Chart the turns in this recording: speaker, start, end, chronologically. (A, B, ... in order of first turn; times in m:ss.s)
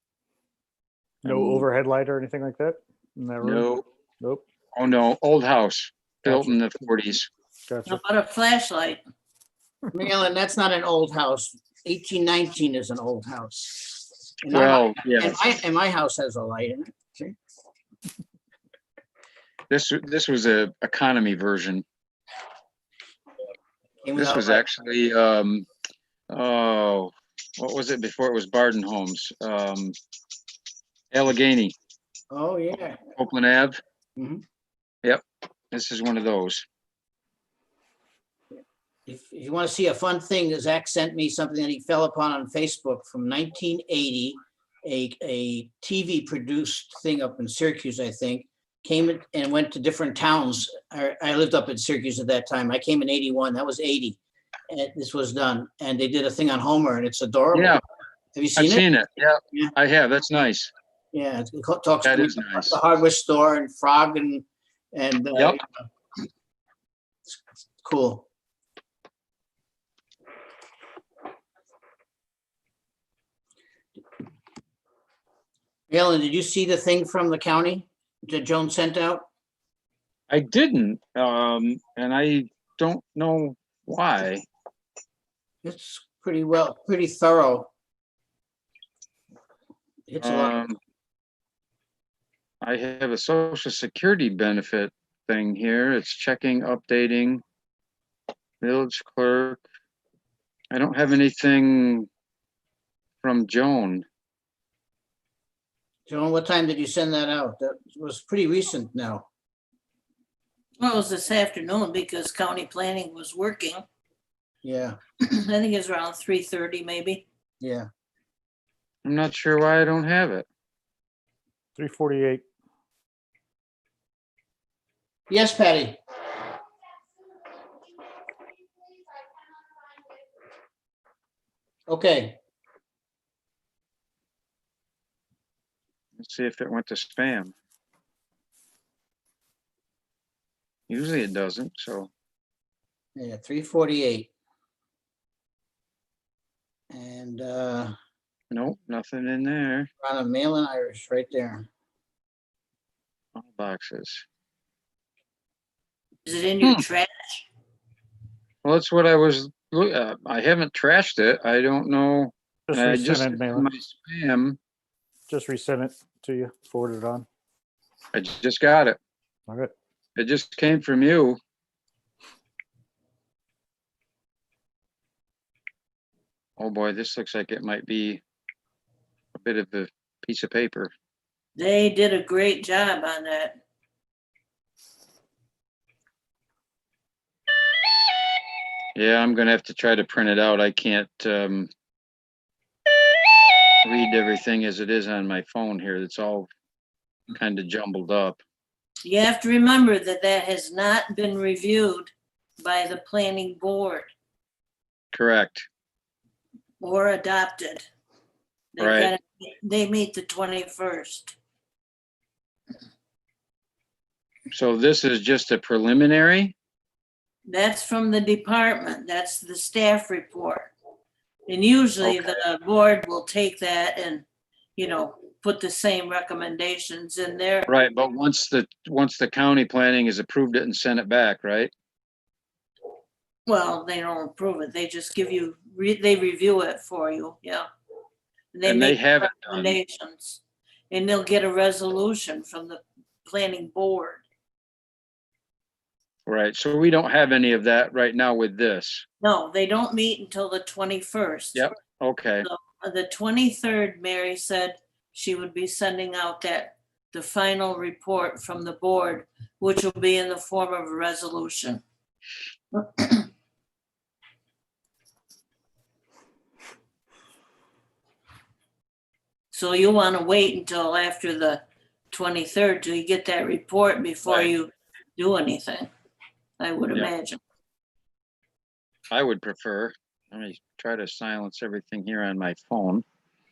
0:01.2-0:01.7 A
0:01.2-0:03.7 B
0:03.4-0:03.8 A
0:04.7-0:07.3 A
0:06.2-0:06.5 B
0:07.7-0:08.0 B
0:07.9-0:09.0 C
0:09.9-0:17.4 D
0:14.5-0:15.4 A
0:19.7-0:21.8 A
0:24.0-0:24.6 D
0:24.2-0:25.7 A
0:26.3-0:30.0 A
0:31.1-0:31.7 A
0:32.3-0:33.0 D
0:33.2-0:33.8 A
0:34.2-0:34.4 D
0:35.0-0:36.6 A
0:39.1-0:54.2 D
0:54.7-0:57.8 D
0:57.5-0:57.8 A
0:58.4-0:58.8 D
0:58.6-1:00.7 A
1:01.1-1:05.7 D
1:02.0-1:02.8 A
1:07.8-1:08.3 D
1:15.9-1:19.3 D
1:20.3-1:24.5 A
1:25.6-1:27.7 D
1:30.1-1:30.6 D
1:30.2-1:30.8 A
1:32.6-1:37.4 A
1:38.6-1:39.6 A
1:40.7-1:42.1 A
1:43.2-1:44.0 A
1:46.1-1:49.3 D
1:50.8-1:53.8 C
1:54.6-1:55.0 D
1:55.2-1:57.2 C
1:57.6-1:57.9 D
1:59.0-2:00.5 A
2:01.8-2:02.4 B
2:05.3-2:06.0 D
2:11.9-2:12.4 D
2:16.2-2:17.5 A
2:20.9-2:22.1 A
2:23.2-2:24.3 D
2:26.9-2:27.9 D
2:28.5-2:29.9 A
2:30.0-2:31.7 D
2:33.4-2:34.2 A
2:36.2-2:37.4 C
2:38.6-2:44.6 A
2:42.7-2:43.7 B
2:45.3-2:47.3 B
2:48.1-2:49.0 A
2:50.2-2:51.4 A
2:56.6-2:58.2 A
2:59.4-3:00.9 A
3:01.6-3:03.6 C
3:09.0-3:11.7 A
3:13.8-3:16.5 A
3:17.3-3:18.4 A
3:19.0-3:24.1 C
3:25.1-3:25.7 A
3:26.8-3:27.9 C
3:28.7-3:31.4 C
3:28.8-3:29.1 A
3:34.5-3:36.6 A
3:37.5-3:40.7 C
3:41.5-3:44.2 C
3:44.8-3:47.7 C
3:47.7-3:51.7 A
3:53.5-3:57.7 C
3:58.5-4:04.2 C
3:58.6-3:59.8 A
4:06.3-4:09.1 A
4:09.2-4:11.7 C
4:11.5-4:12.5 A
4:12.4-4:21.8 C
4:22.7-4:23.3 C
4:29.5-4:35.9 C
4:34.3-4:34.5 A
4:36.6-4:37.4 C
4:39.1-4:43.0 A